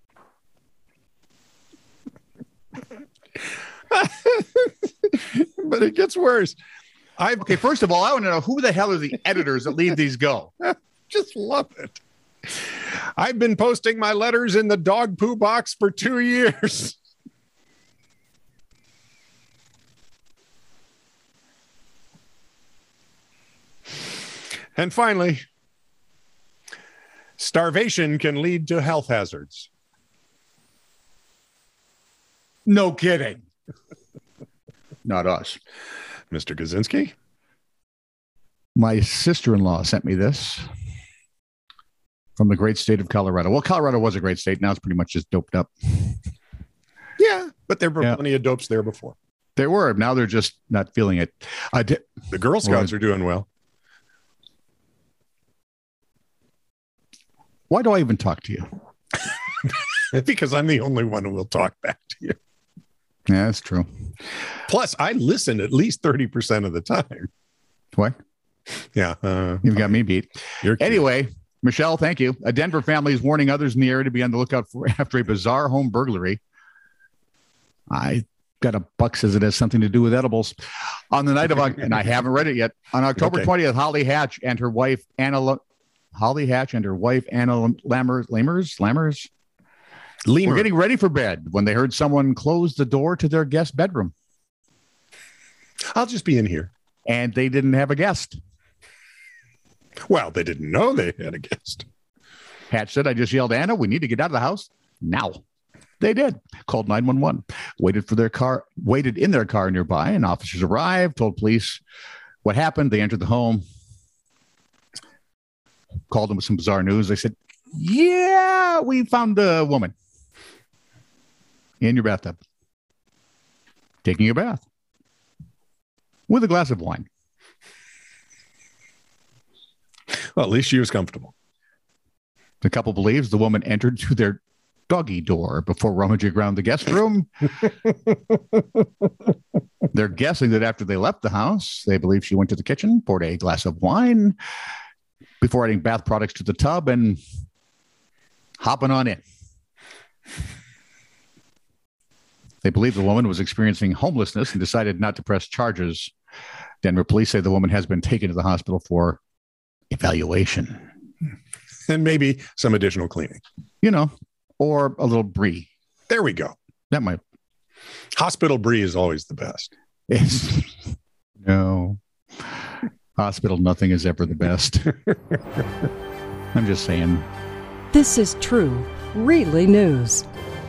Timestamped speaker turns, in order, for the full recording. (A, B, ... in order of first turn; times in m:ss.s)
0:03.9-0:06.6 A
0:07.2-0:07.6 A
0:07.4-0:10.5 B
0:10.6-0:12.6 A
0:13.2-0:17.0 A
0:24.8-0:25.4 A
0:27.4-0:29.7 A
0:32.6-0:33.4 B
0:35.0-0:35.6 B
0:36.3-0:37.1 A
0:38.7-0:40.6 B
0:42.4-0:46.2 B
0:47.2-0:49.2 A
0:49.6-0:52.1 B
0:52.3-0:53.5 A
0:52.6-0:52.9 B
0:57.7-0:58.7 B
0:59.6-1:02.4 A
1:03.3-1:03.9 B
1:04.7-1:07.3 A
1:08.9-1:09.9 A
1:09.6-1:16.4 B
1:10.6-1:11.0 A
1:17.9-1:20.6 B
1:21.1-1:25.6 B
1:26.1-1:29.3 B
1:30.2-1:30.7 A
1:30.4-1:34.1 B
1:35.9-1:36.7 A
1:37.0-1:38.4 B
1:40.1-1:41.8 A
1:42.7-1:45.4 B
1:46.0-1:51.8 B
1:52.4-1:53.6 B
1:56.1-1:59.9 B
2:01.8-2:02.4 B
2:04.0-2:04.6 B
2:06.3-2:07.0 B
2:10.1-2:11.3 A
2:12.6-2:17.5 B
2:19.9-2:24.4 B
2:25.4-2:27.2 B
2:28.6-2:29.2 B
2:32.6-2:36.1 B
2:36.8-2:39.2 B
2:39.9-2:40.8 B
2:41.9-2:43.4 A
2:43.8-2:45.7 B
2:46.1-2:46.6 A
2:46.9-2:47.2 B
2:48.1-2:49.7 A
2:50.1-2:50.8 B
2:51.4-2:52.0 B
2:53.2-2:55.0 B
2:56.5-2:57.3 B
2:57.9-3:00.2 C